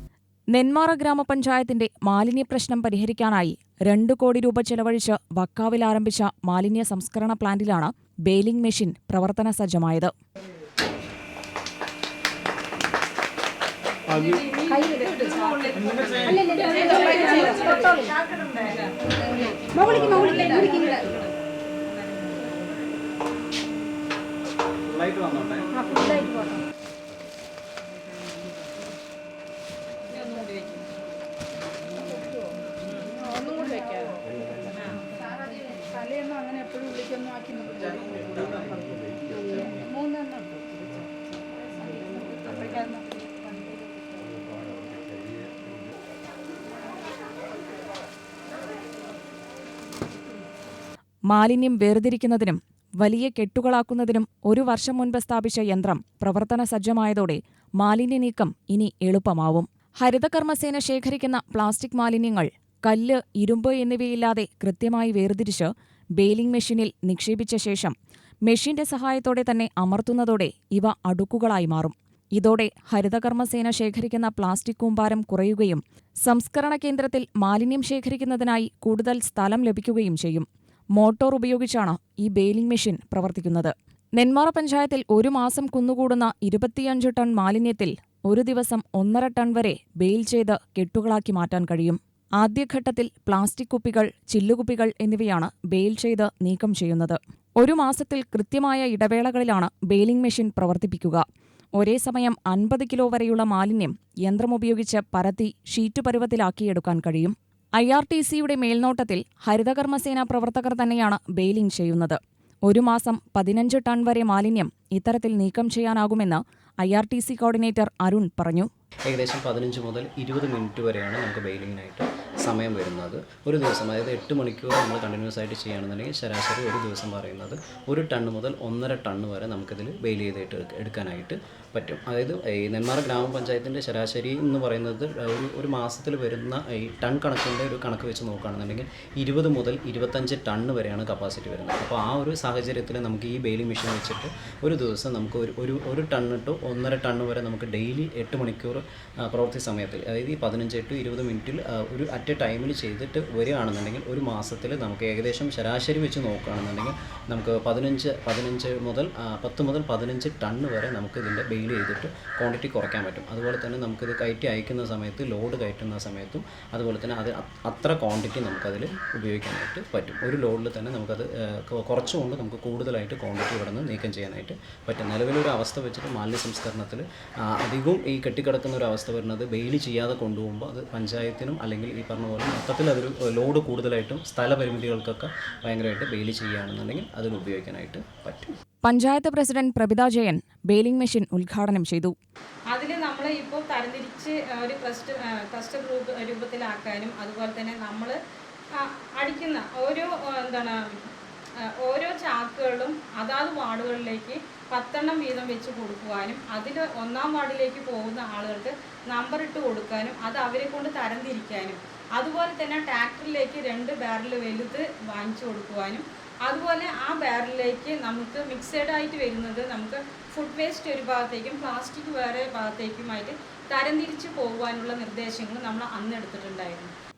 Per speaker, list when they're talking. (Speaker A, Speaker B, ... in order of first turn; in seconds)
Speaker A: 0.5-10.1, 51.3-67.9, 68.5-101.2, 101.8-118.7, 188.9-192.1
Speaker B: 14.1-21.3, 21.9-22.5, 30.1-30.9, 192.7-198.2, 198.7-201.1, 201.6-226.9
Speaker C: 14.7-15.1, 16.2-18.1, 19.7-21.1, 25.8-26.6, 33.3-34.1, 35.9-40.9, 42.4-43.0
Speaker D: 24.9-25.6, 119.1-188.5